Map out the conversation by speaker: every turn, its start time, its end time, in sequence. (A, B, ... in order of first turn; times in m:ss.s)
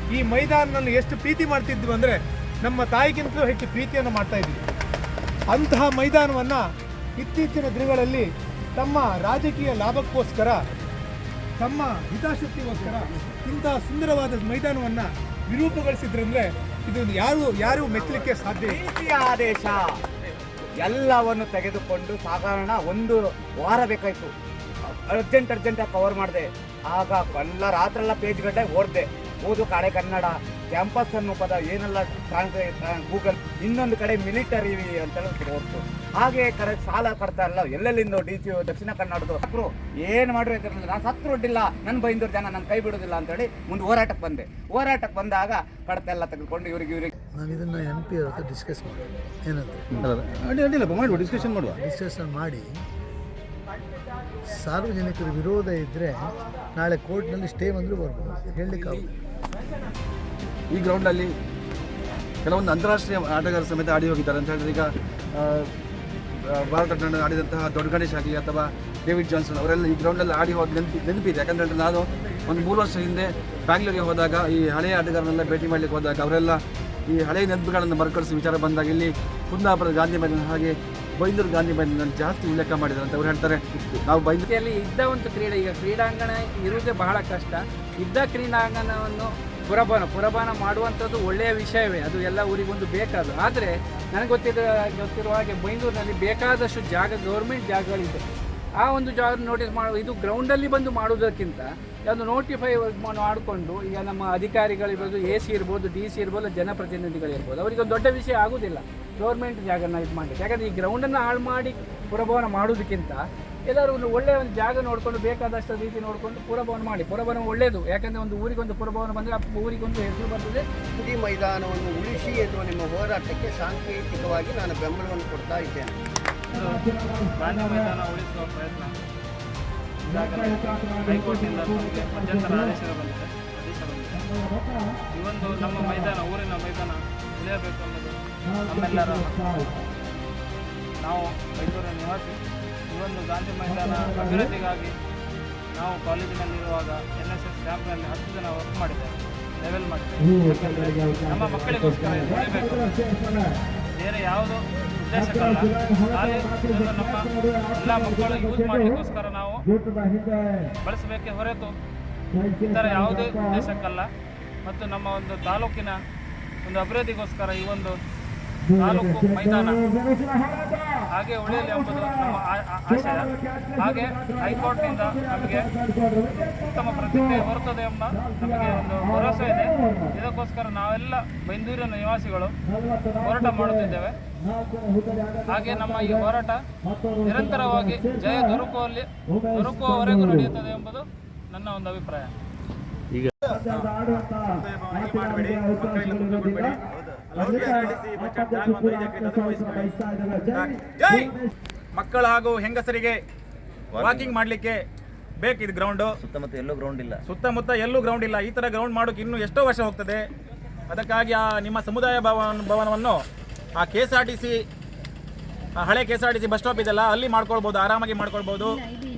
0:00.2-0:04.6 A
0:05.5-0:06.6 A
0:07.2-0:10.6 A
0:11.6-0:18.8 A
0:18.8-0:19.8 B
0:20.8-0:24.3 B
0:25.2-0:47.1 B
0:47.3-0:49.8 C
0:50.0-0:51.8 D
0:51.7-0:52.8 C
0:54.6-0:59.1 C
0:58.7-0:59.1 D
1:00.7-1:01.3 D
1:02.4-1:05.7 D
1:06.4-1:24.4 D
1:24.5-1:38.2 E
1:38.8-2:00.6 E
2:01.0-2:06.0 F
2:06.5-2:08.9 G
2:10.1-2:14.3 G
2:15.2-2:19.4 G
2:21.0-2:22.4 G
2:22.9-2:24.9 G
2:25.8-2:33.3 G
2:34.0-2:39.6 G
2:40.8-2:41.7 G
2:42.4-2:44.1 G
2:44.7-2:46.0 G
2:46.6-2:48.0 G
2:48.7-2:50.0 G
2:51.1-3:02.6 G
3:03.2-3:04.1 G
3:05.5-3:06.6 G
3:07.2-3:12.3 G
3:13.6-3:16.8 H
3:17.3-3:21.3 H
3:22.0-3:23.2 H
3:23.9-3:24.8 H
3:25.4-3:30.2 H
3:30.9-3:33.2 H
3:33.8-3:34.5 H
3:35.8-3:38.8 H